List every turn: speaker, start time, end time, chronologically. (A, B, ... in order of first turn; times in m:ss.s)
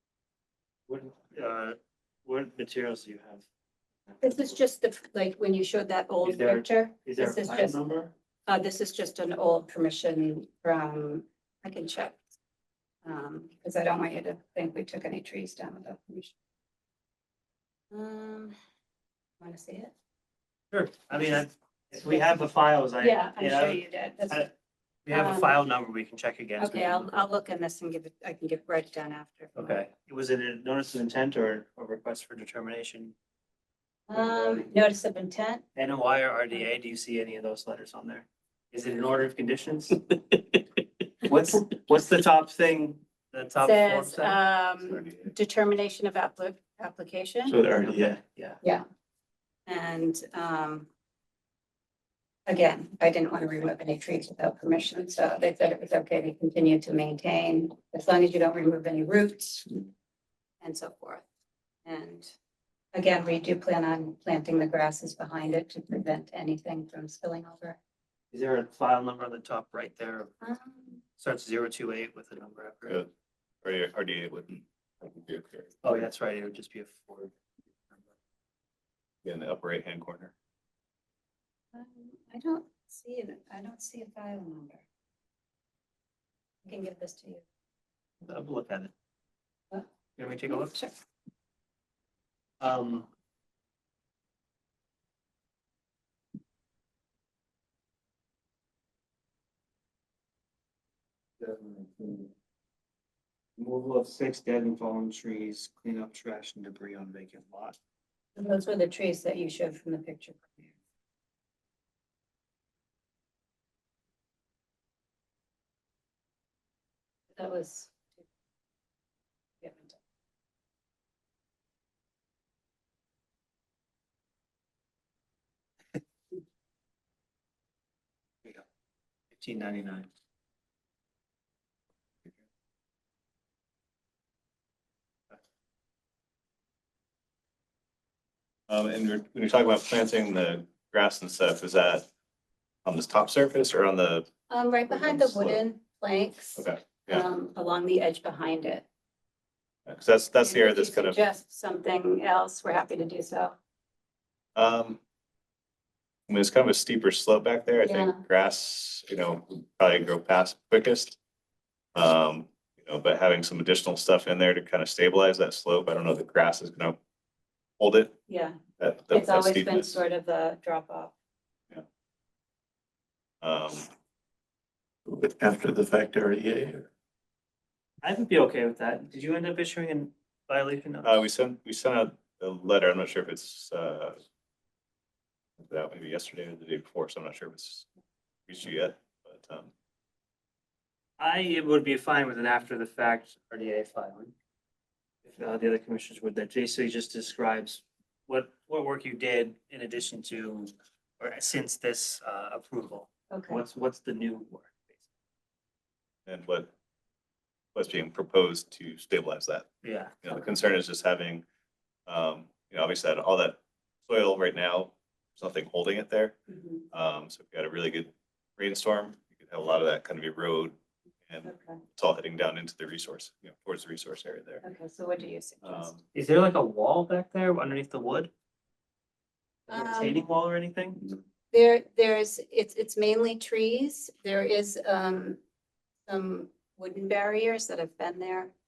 0:00.9-0:03.4 A
0:04.1-0:04.5 A
0:04.2-0:07.8 B
0:06.2-0:08.1 A
0:08.4-0:12.2 B
0:13.0-0:16.3 B
0:17.9-0:18.5 B
0:19.4-0:19.9 B
0:20.7-0:24.5 A
0:23.0-0:24.5 B
0:25.0-0:27.1 A
0:25.1-0:25.6 B
0:26.6-0:29.8 B
0:29.5-0:33.1 A
0:34.1-0:35.6 B
0:34.1-0:34.7 A
0:35.8-0:45.3 A
0:43.6-0:47.6 B
0:47.4-0:48.2 C
0:47.7-0:48.6 A
0:49.7-0:50.9 B
0:52.5-0:59.8 B
1:00.6-1:01.2 B
1:01.8-1:02.3 B
1:02.9-1:07.8 B
1:08.3-1:10.3 A
1:10.4-1:11.0 B
1:11.2-1:13.0 A
1:13.6-1:15.8 D
1:15.8-1:17.3 A
1:17.9-1:18.1 A
1:19.2-1:20.3 D
1:21.7-1:24.8 B
1:26.6-1:27.4 B
1:28.2-1:28.9 A
1:30.2-1:30.8 A
1:30.5-1:30.9 B
1:32.6-1:33.1 A
1:41.4-1:42.3 A
1:43.6-1:47.8 A
1:48.4-1:50.7 B
1:57.3-1:58.2 B
1:59.6-2:00.0 B
2:09.3-2:10.1 A
2:18.7-2:22.0 D
2:22.8-2:24.3 D
2:24.5-2:28.8 B
2:24.9-2:25.6 D
2:26.6-2:27.2 D
2:29.8-2:31.2 D
2:30.4-2:33.6 B
2:34.5-2:35.0 D
2:36.3-2:41.2 D
2:37.8-2:38.2 B
2:41.9-2:47.0 D
2:47.8-2:48.2 D
2:48.3-2:48.6 B
2:48.8-2:50.0 D
2:49.1-2:51.1 B
2:53.4-2:53.9 D
2:55.1-2:56.9 C
2:58.0-3:01.2 A
3:01.0-3:04.2 D
3:05.6-3:07.9 D
3:08.5-3:09.7 D
3:11.2-3:14.3 A
3:15.2-3:25.0 A
3:23.3-3:23.6 B
3:26.2-3:26.7 D
3:27.7-3:29.7 D
3:29.8-3:30.3 A
3:30.2-3:31.4 D
3:32.1-3:36.4 D
3:36.5-3:36.8 B
3:36.9-3:40.7 D
3:41.3-3:44.6 D
3:41.4-3:41.8 B
3:44.6-3:45.9 B
3:45.6-3:46.0 D
3:46.1-3:48.3 A
3:49.7-3:51.2 A
3:49.7-3:50.2 B
3:51.5-3:55.4 B
3:56.0-3:58.5 B